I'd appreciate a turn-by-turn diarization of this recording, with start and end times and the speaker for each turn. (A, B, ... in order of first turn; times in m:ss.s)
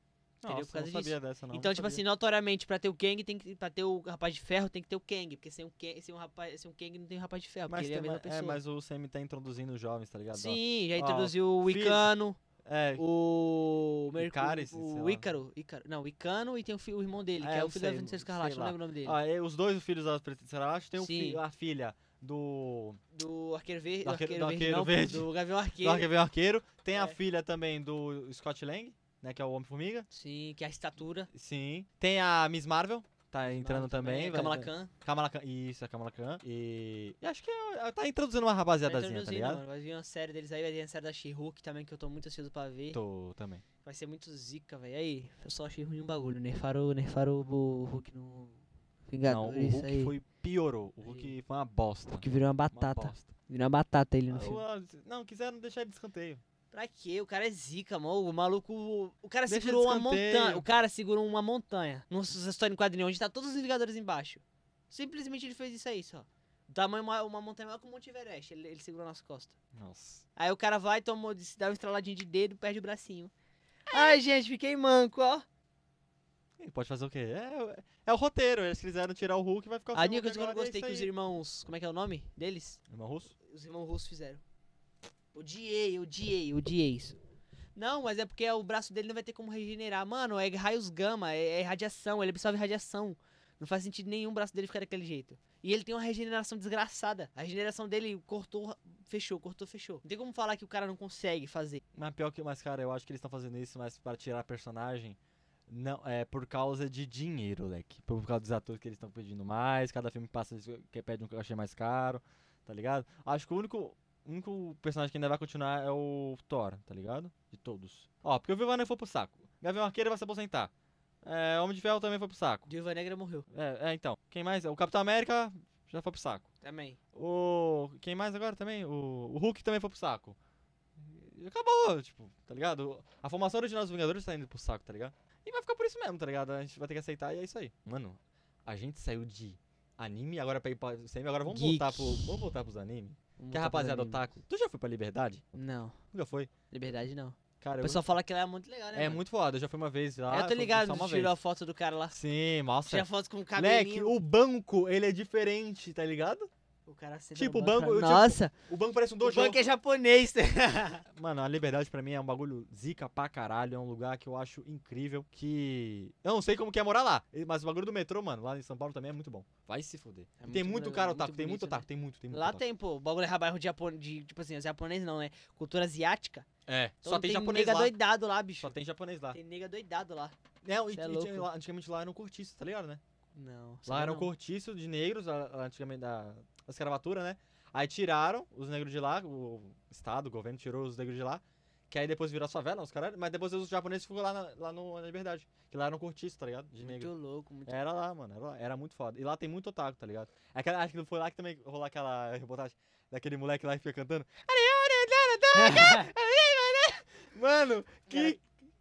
0:00.4-0:02.0 A
0:00.5-0:08.6 B
0:07.7-0:12.1 A
0:10.3-0:12.4 B
0:12.6-0:13.0 A
0:13.0-0:19.2 B
0:14.2-0:15.3 A
0:17.4-0:23.0 A
0:21.0-0:21.4 B
0:23.1-0:26.1 B
0:24.0-0:25.3 A
0:25.8-0:30.1 A
0:30.1-0:31.3 B
0:31.3-0:39.6 A
0:33.4-0:34.9 B
0:38.9-0:43.0 B
0:42.9-0:43.6 A
0:43.8-0:50.2 B
0:49.2-0:53.3 A
0:51.0-0:51.3 B
0:52.1-0:54.6 B
0:54.3-0:56.4 A
0:56.7-1:09.6 B
0:59.5-1:00.7 A
1:09.7-1:10.2 A
1:10.4-1:13.3 B
1:13.9-1:14.2 A
1:13.9-1:15.4 B
1:16.6-1:21.1 A
1:19.9-1:22.8 B
1:22.9-1:23.3 A
1:23.4-1:24.4 B
1:25.3-1:27.2 B
1:27.8-1:41.8 B
1:42.0-2:00.7 A
2:01.2-2:02.7 A
2:02.7-2:03.5 B
2:03.5-2:06.5 A
2:06.6-2:07.0 B
2:07.1-2:10.4 A
2:11.0-2:25.4 A
2:21.5-2:22.3 B
2:23.4-2:24.2 B
2:25.5-2:26.0 B
2:26.1-2:26.5 A
2:26.7-2:29.2 B
2:27.6-2:28.1 A
2:29.0-2:31.4 A
2:30.3-2:32.2 B
2:32.1-2:36.5 A
2:32.9-2:34.1 B
2:36.9-2:38.5 B
2:37.4-2:39.6 A
2:39.2-2:41.0 B
2:41.1-2:52.6 A
2:50.4-2:56.5 B
2:56.7-2:58.0 A
2:57.0-2:58.8 B
2:58.6-2:59.4 A
2:59.3-3:00.4 B
3:00.6-3:03.0 A
3:00.9-3:01.5 B
3:03.4-3:04.3 B
3:03.9-3:17.1 A
3:16.8-3:17.8 B
3:17.7-3:28.4 A
3:25.5-3:26.1 B
3:28.1-3:28.4 B